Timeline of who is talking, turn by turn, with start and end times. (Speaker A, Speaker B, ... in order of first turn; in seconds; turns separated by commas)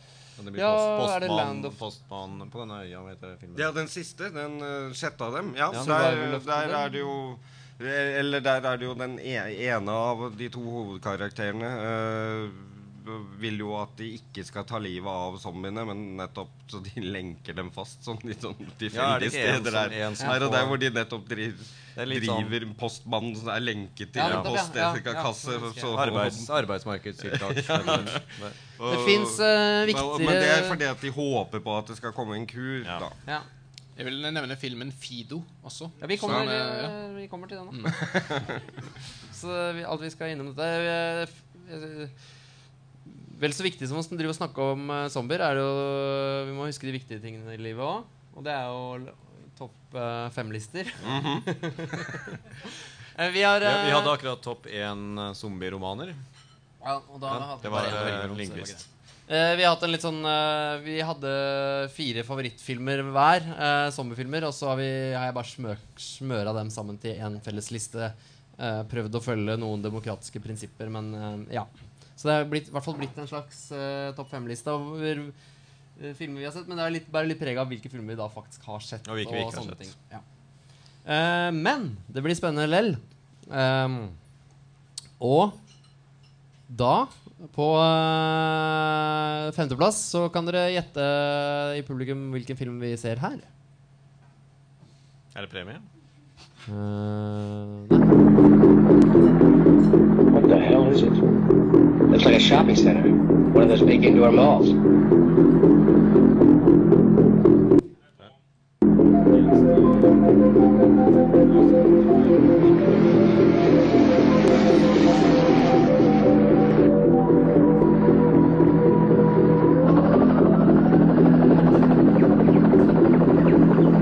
Speaker A: 0.4-3.7, Speaker B: 0.6-1.8, Speaker C: 3.5-26.6, Speaker A: 5.7-6.0, Speaker B: 5.7-6.9, Speaker A: 18.9-20.8, Speaker A: 22.0-22.5, Speaker B: 24.1-25.9, Speaker A: 24.2-24.6, Speaker A: 25.9-28.6, Speaker C: 27.2-33.1, Speaker B: 28.9-30.8, Speaker D: 34.0-37.0, Speaker B: 36.0-38.0, Speaker D: 37.7-38.2, Speaker C: 38.1-38.5, Speaker B: 39.3-42.1, Speaker B: 43.1-52.3, Speaker C: 51.0-51.5, Speaker B: 53.1-54.2, Speaker A: 53.6-56.2, Speaker B: 56.8-75.3, Speaker A: 57.3-58.9, Speaker B: 76.0-80.2, Speaker A: 79.0-79.9, Speaker B: 81.0-84.2, Speaker B: 85.2-85.6, Speaker B: 86.7-93.5, Speaker A: 95.3-95.9, Speaker B: 96.7-98.3, Speaker E: 100.3-101.2, Speaker E: 102.1-104.8, Speaker A: 109.3-109.8